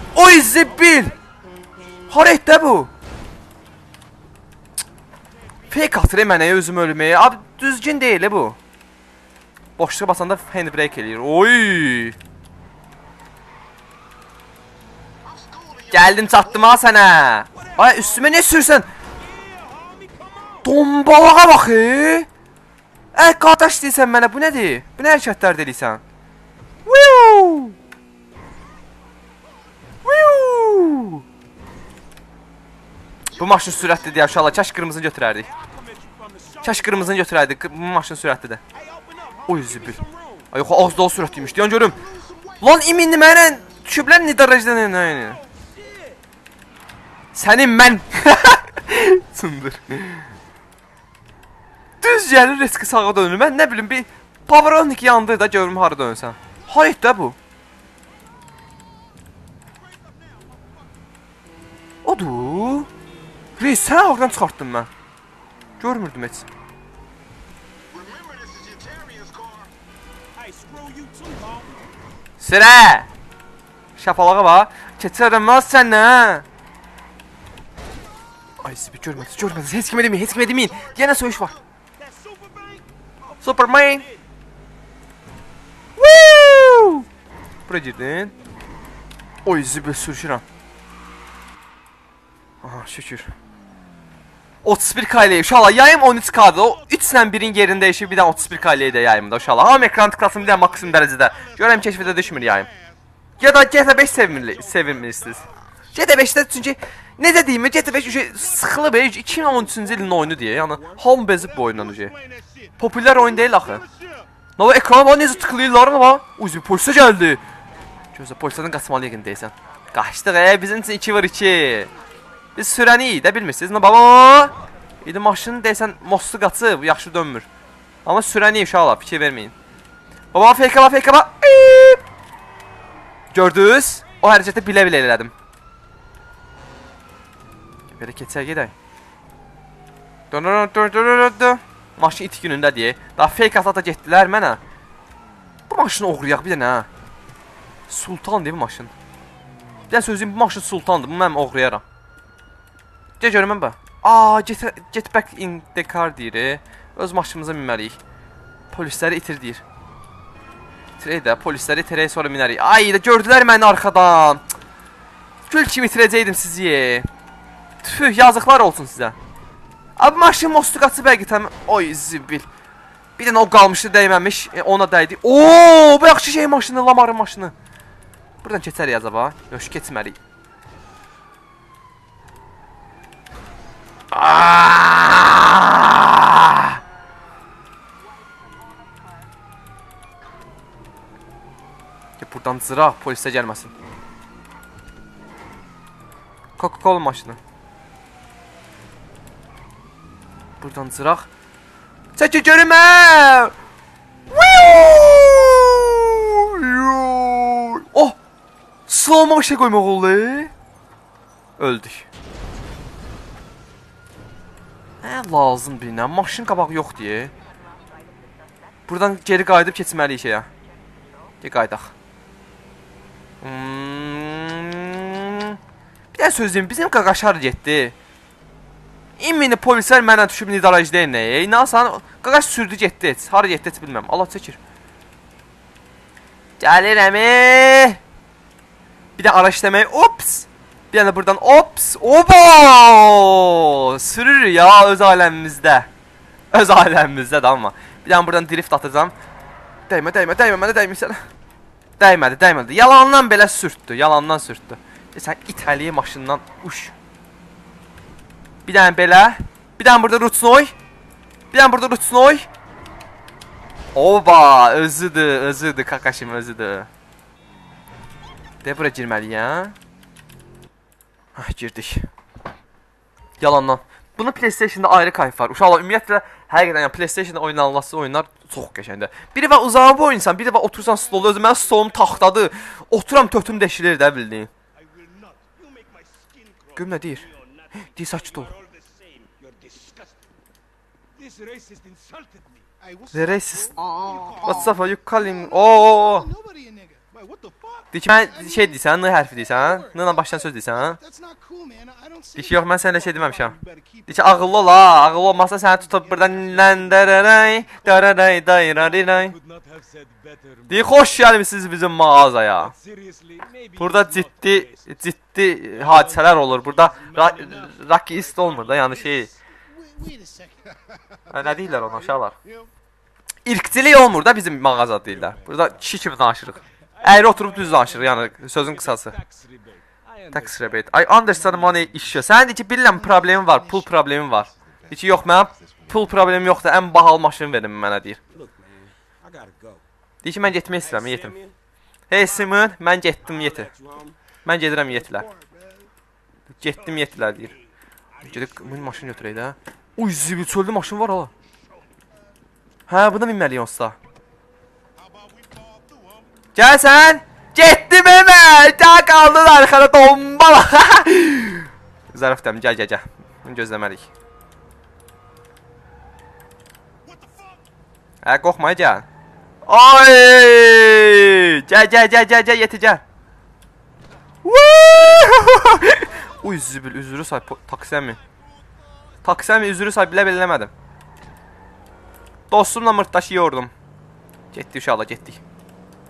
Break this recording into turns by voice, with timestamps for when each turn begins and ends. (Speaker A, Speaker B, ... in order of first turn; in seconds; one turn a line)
Speaker A: 0.1-1.1
Speaker B: 0.8-1.1
Speaker A: 2.1-2.9
Speaker A: 5.7-8.6
Speaker A: 9.8-12.2
Speaker A: 15.9-18.9
Speaker B: 17.5-18.5
Speaker B: 19.1-20.7
Speaker A: 20.6-22.3
Speaker A: 23.1-26.0
Speaker A: 26.9-27.8
Speaker A: 30.0-31.2
Speaker A: 33.3-35.5
Speaker B: 34.0-34.2
Speaker B: 35.4-37.2
Speaker A: 36.6-38.6
Speaker B: 38.7-40.5
Speaker A: 39.5-40.0
Speaker A: 40.5-42.0
Speaker A: 42.6-45.4
Speaker B: 45.1-46.2
Speaker A: 47.3-50.3
Speaker A: 52.0-57.4
Speaker A: 62.0-62.9
Speaker A: 63.6-64.9
Speaker A: 65.8-66.5
Speaker B: 70.3-71.9
Speaker A: 72.4-73.1
Speaker A: 74.0-76.4
Speaker A: 78.6-81.5
Speaker B: 82.0-84.2
Speaker A: 83.4-84.0
Speaker A: 86.0-87.0
Speaker A: 87.7-88.3
Speaker A: 89.4-90.4
Speaker A: 92.6-93.3
Speaker A: 94.6-102.7
Speaker B: 97.5-99.4
Speaker B: 101.5-101.8
Speaker B: 103.4-105.5
Speaker A: 103.4-112.1
Speaker B: 109.5-111.4
Speaker A: 112.8-113.8
Speaker A: 114.6-117.4
Speaker A: 118.1-121.9
Speaker A: 122.5-127.5
Speaker A: 128.0-129.5
Speaker A: 130.3-132.0
Speaker A: 133.3-135.3
Speaker A: 138.0-138.7
Speaker A: 140.3-144.6
Speaker A: 145.7-146.9
Speaker A: 147.9-148.9
Speaker A: 149.9-151.8
Speaker A: 153.2-158.0
Speaker A: 158.7-159.6
Speaker A: 161.0-164.4
Speaker A: 165.5-167.1
Speaker A: 167.8-169.2
Speaker A: 170.0-172.5
Speaker A: 173.2-177.5
Speaker A: 178.4-180.2
Speaker A: 184.1-186.8
Speaker A: 192.2-193.7
Speaker A: 196.6-197.4
Speaker A: 200.6-201.3
Speaker A: 202.2-203.5
Speaker A: 204.3-208.2
Speaker A: 208.9-210.5
Speaker A: 211.6-212.1
Speaker A: 215.0-217.3
Speaker A: 218.9-220.5
Speaker A: 221.4-221.9
Speaker A: 223.4-225.6
Speaker A: 226.1-227.9
Speaker A: 229.2-234.6
Speaker A: 236.6-238.0
Speaker A: 239.2-245.9
Speaker A: 246.5-249.1
Speaker A: 249.9-251.2
Speaker A: 252.0-256.9
Speaker A: 258.6-260.7
Speaker A: 261.5-262.5
Speaker A: 263.9-266.9
Speaker A: 268.6-269.7
Speaker A: 271.4-272.1
Speaker A: 273.4-284.5
Speaker B: 284.7-290.3
Speaker A: 286.8-287.3
Speaker A: 287.9-288.5
Speaker B: 291.1-292.7
Speaker C: 292.8-293.4
Speaker A: 293.1-293.8
Speaker C: 293.9-297.0
Speaker A: 294.4-296.3
Speaker B: 297.3-297.9
Speaker A: 297.9-301.0
Speaker C: 298.2-302.6
Speaker A: 302.4-309.4
Speaker C: 306.4-306.6
Speaker B: 308.7-311.1
Speaker A: 310.7-312.7
Speaker B: 312.6-315.1
Speaker A: 313.8-319.3
Speaker B: 315.7-319.1
Speaker C: 319.2-321.9
Speaker A: 321.3-322.3
Speaker A: 323.4-329.1
Speaker B: 327.0-331.9
Speaker A: 330.3-338.2
Speaker C: 333.0-333.8
Speaker B: 338.3-339.8
Speaker A: 340.2-341.4
Speaker B: 340.8-341.6
Speaker A: 342.1-343.7
Speaker B: 343.2-344.2
Speaker A: 344.4-345.3
Speaker C: 345.1-345.4
Speaker A: 346.6-347.5
Speaker B: 346.7-349.4
Speaker A: 348.2-351.3
Speaker A: 352.9-354.0
Speaker A: 356.5-364.1
Speaker A: 368.2-369.1
Speaker A: 369.7-373.0
Speaker A: 374.4-378.2
Speaker A: 379.2-380.7
Speaker A: 382.5-383.7
Speaker A: 384.5-385.4